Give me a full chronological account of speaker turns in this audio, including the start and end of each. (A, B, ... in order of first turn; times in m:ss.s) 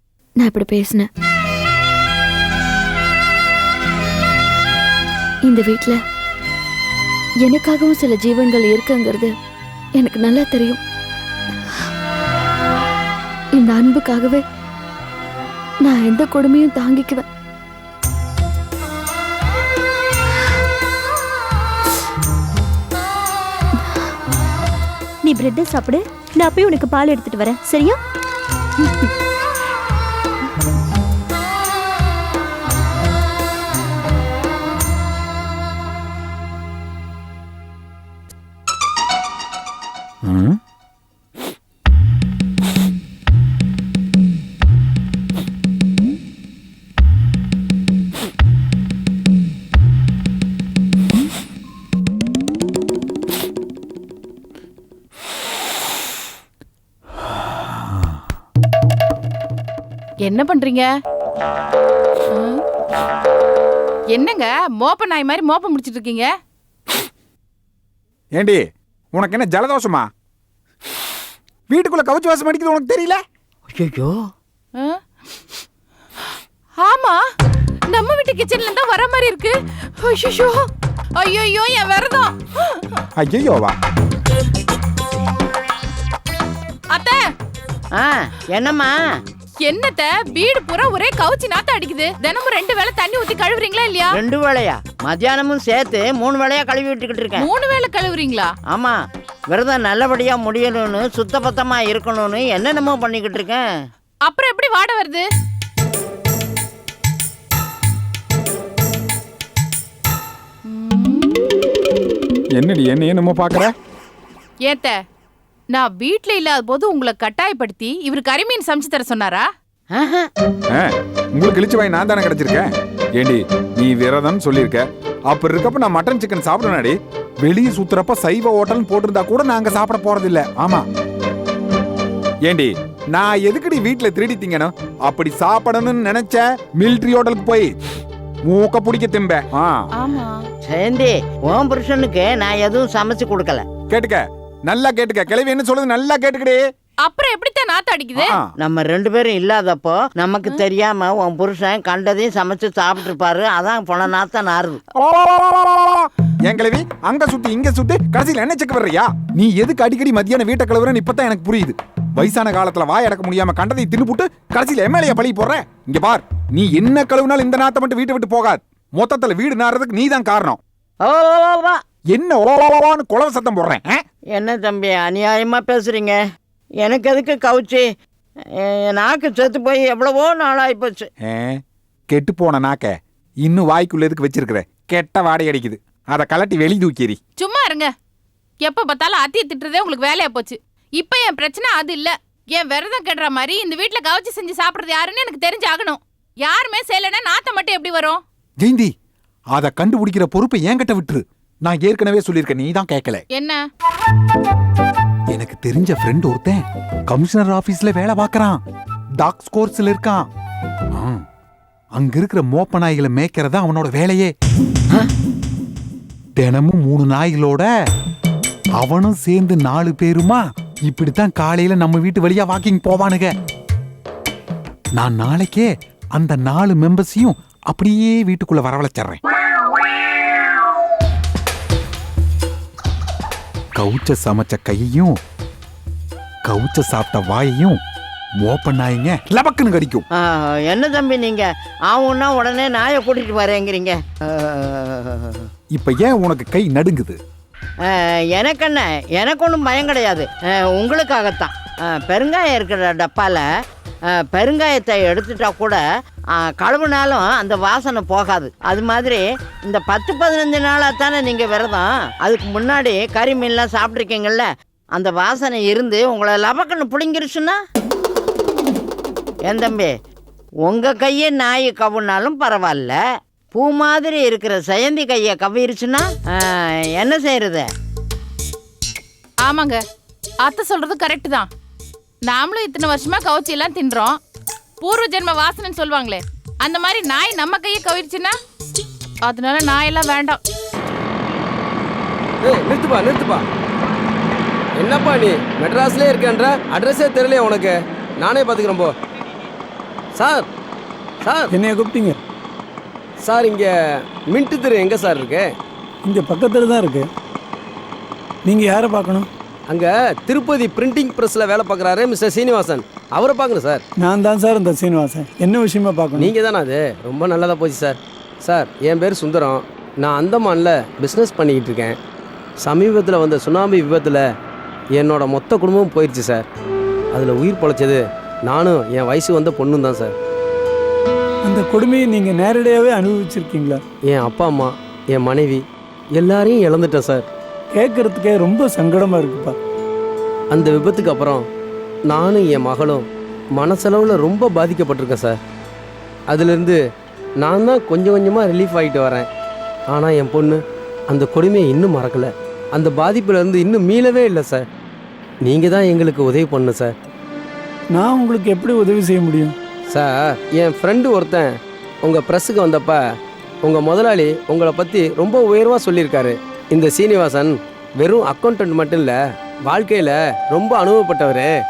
0:00.4-0:01.1 A
0:05.4-0:06.0 A
0:07.4-0:09.3 A
0:10.0-0:10.8 A
0:13.6-0:14.4 A
0:15.8-0:17.2 A
0:25.2-0:28.0 B
0:40.2-0:40.6 C
1:00.2-1:00.9 D
1:02.3-1:02.6 D
1:04.1-1:06.3 D
1:09.1-1:10.1 C
1:11.7-1:13.2 C
1:13.7-1:14.1 E
1:16.8-1:17.2 D
1:17.9-1:20.7 D
1:21.2-1:22.8 D
1:23.2-1:23.8 C
1:26.9-1:27.2 D
1:28.0-1:29.0 E
1:29.6-1:34.2 D
1:34.1-1:37.5 E
1:37.4-1:38.5 D
1:39.5-1:43.6 E
1:44.2-1:45.2 D
1:50.7-1:51.3 D
1:52.6-1:53.7 C
1:54.6-1:55.0 D
1:55.7-1:59.4 D
1:59.9-2:00.3 E
2:00.8-2:02.6 C
2:03.2-2:10.8 C
2:12.5-2:17.7 C
2:18.4-2:19.8 C
2:20.0-2:20.3 D
2:20.6-2:23.7 E
2:23.9-2:26.6 C
2:27.0-2:28.4 D
2:28.2-2:28.5 C
2:28.6-2:34.8 E
2:35.0-2:50.6 C
2:51.0-2:51.8 E
2:52.1-2:54.0 C
2:54.3-2:56.2 E
2:56.8-2:57.9 E
2:58.6-3:01.1 E
3:01.2-3:01.6 C
3:02.1-3:07.2 C
3:07.4-3:07.9 D
3:08.6-3:18.2 D
3:18.6-3:18.9 C
3:19.5-3:23.2 C
3:23.3-3:23.6 D
3:25.3-3:28.6 C
3:29.2-3:30.3 C
3:31.0-3:31.2 C
3:31.9-3:34.3 C
3:36.4-3:37.7 C
3:38.8-3:43.3 C
3:45.0-3:49.2 C
3:53.8-3:55.1 C
3:56.4-3:57.8 C
3:58.4-4:00.0 C
4:00.2-4:05.4 E
4:05.7-4:07.2 C
4:07.9-4:13.4 E
4:14.1-4:15.8 E
4:16.4-4:27.6 E
4:29.5-4:29.9 E
4:30.6-4:33.0 E
4:33.5-4:37.7 E
4:39.4-4:39.8 D
4:40.4-4:41.5 D
4:42.2-4:44.2 D
4:44.8-4:48.3 D
4:49.2-4:50.4 D
4:52.4-4:53.4 F
4:54.8-4:58.9 F
5:00.1-5:00.5 F
5:01.2-5:01.5 F
5:01.5-5:02.2 G
5:03.2-5:03.7 F
5:04.3-5:05.5 F
5:06.0-5:07.1 G
5:08.4-5:09.3 G
5:09.7-5:13.8 F
5:14.0-5:16.3 G
5:16.2-5:22.0 F
5:22.6-5:24.2 F
5:24.9-5:26.4 F
5:27.1-5:30.1 F
5:31.4-5:33.8 G
5:34.1-5:35.6 F
5:36.1-5:37.3 F
5:37.7-5:39.5 G
5:40.5-5:41.4 F
5:42.1-5:45.4 F
5:46.3-5:46.8 F
5:47.4-5:49.3 F
5:49.9-5:54.6 F
5:55.4-5:56.9 F
5:57.9-5:59.5 G
5:59.9-6:01.5 F
6:02.0-6:03.0 F
6:03.6-6:11.5 F